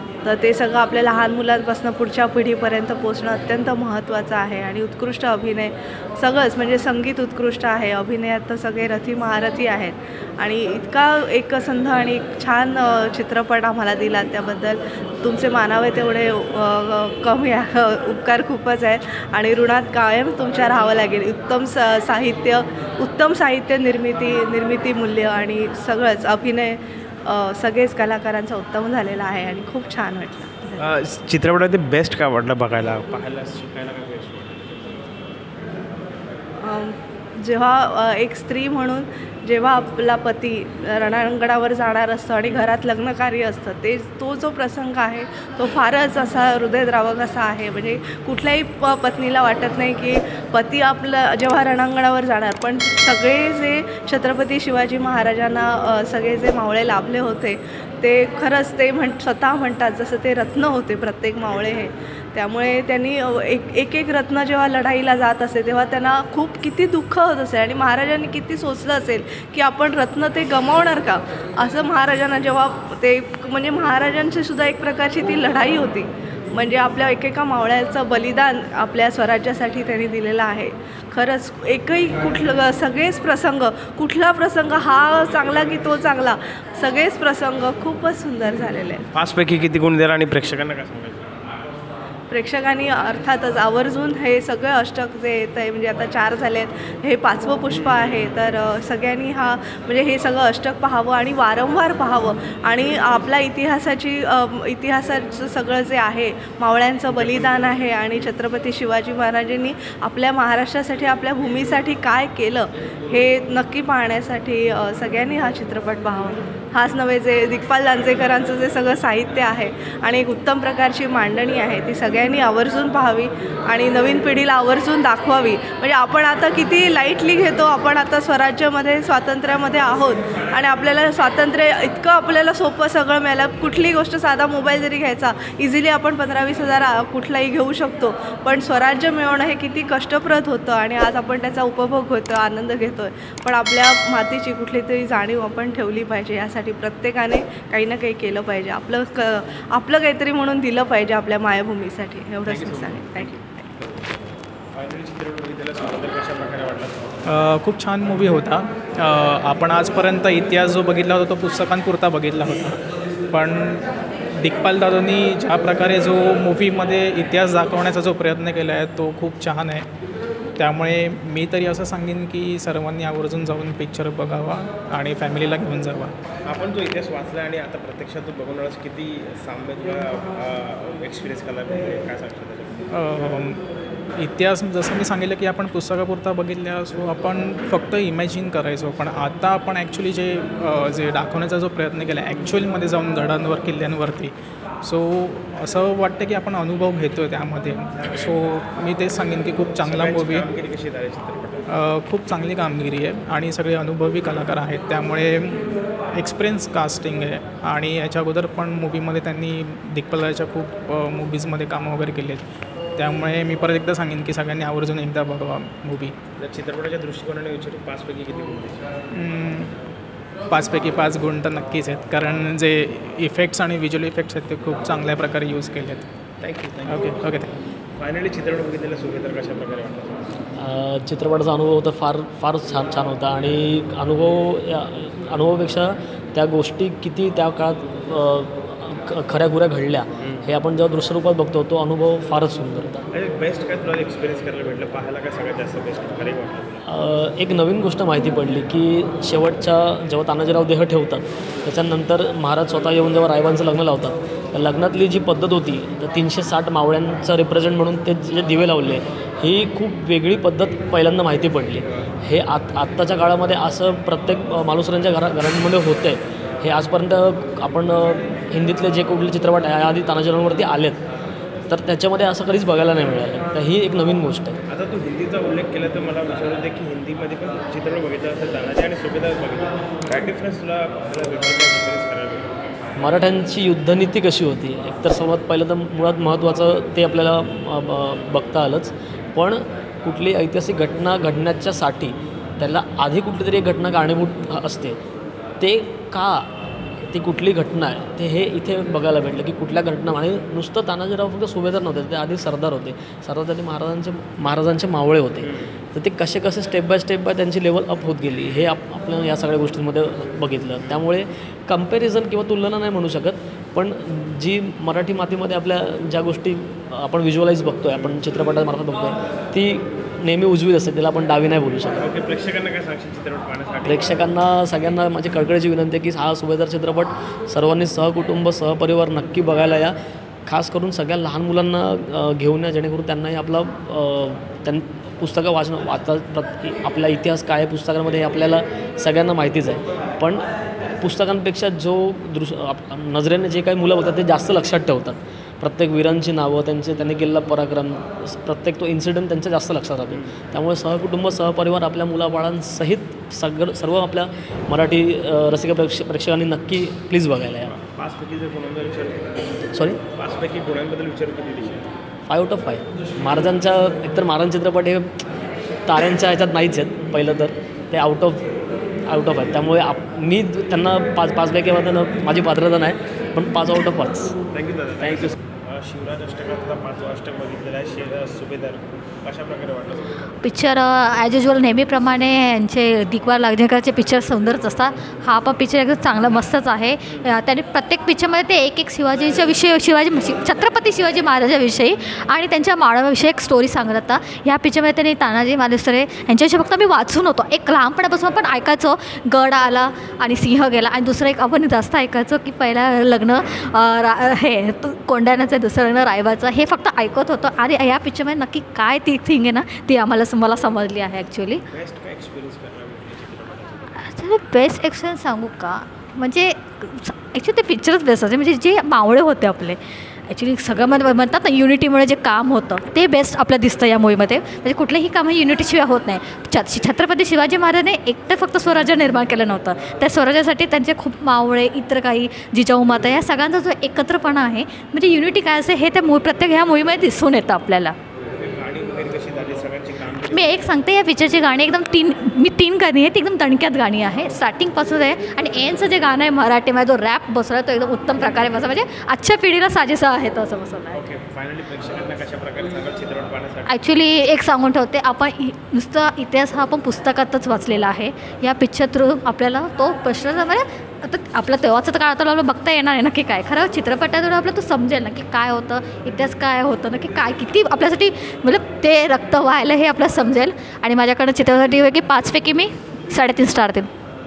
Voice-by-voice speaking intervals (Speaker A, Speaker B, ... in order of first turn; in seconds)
Speaker A: 0.2-30.9, 36.6-89.0, 92.3-153.3
Speaker B: 30.8-34.9, 89.1-91.4, 152.4-154.0, 154.7-157.1, 176.4-182.8, 199.7-201.6, 216.4-218.9, 226.4-227.1, 227.9-230.3, 243.1-246.8, 274.7-282.5, 321.9-324.3, 350.1-350.3, 357.8-361.9, 374.5-380.3, 411.7-414.0, 438.3-440.7, 450.9-453.7
Speaker C: 157.2-162.8, 163.3-163.8, 164.4-169.8, 170.6-176.1, 182.9-183.6, 184.2-194.3, 194.8-200.5, 201.7-212.4, 213.0-216.2, 219.1-219.7, 220.5-226.1, 226.8-227.4
Speaker D: 230.6-243.0, 246.8-271.0, 271.7-274.6, 283.0-295.0, 295.6-296.5, 297.0-322.1, 323.8-329.9, 330.4-340.4, 341.0-357.8, 359.7-360.0, 362.3-365.2, 365.9-368.5, 369.1-374.3, 375.0-375.3
Speaker E: 380.4-411.6, 413.9-437.9, 440.2-451.0, 453.7-473.9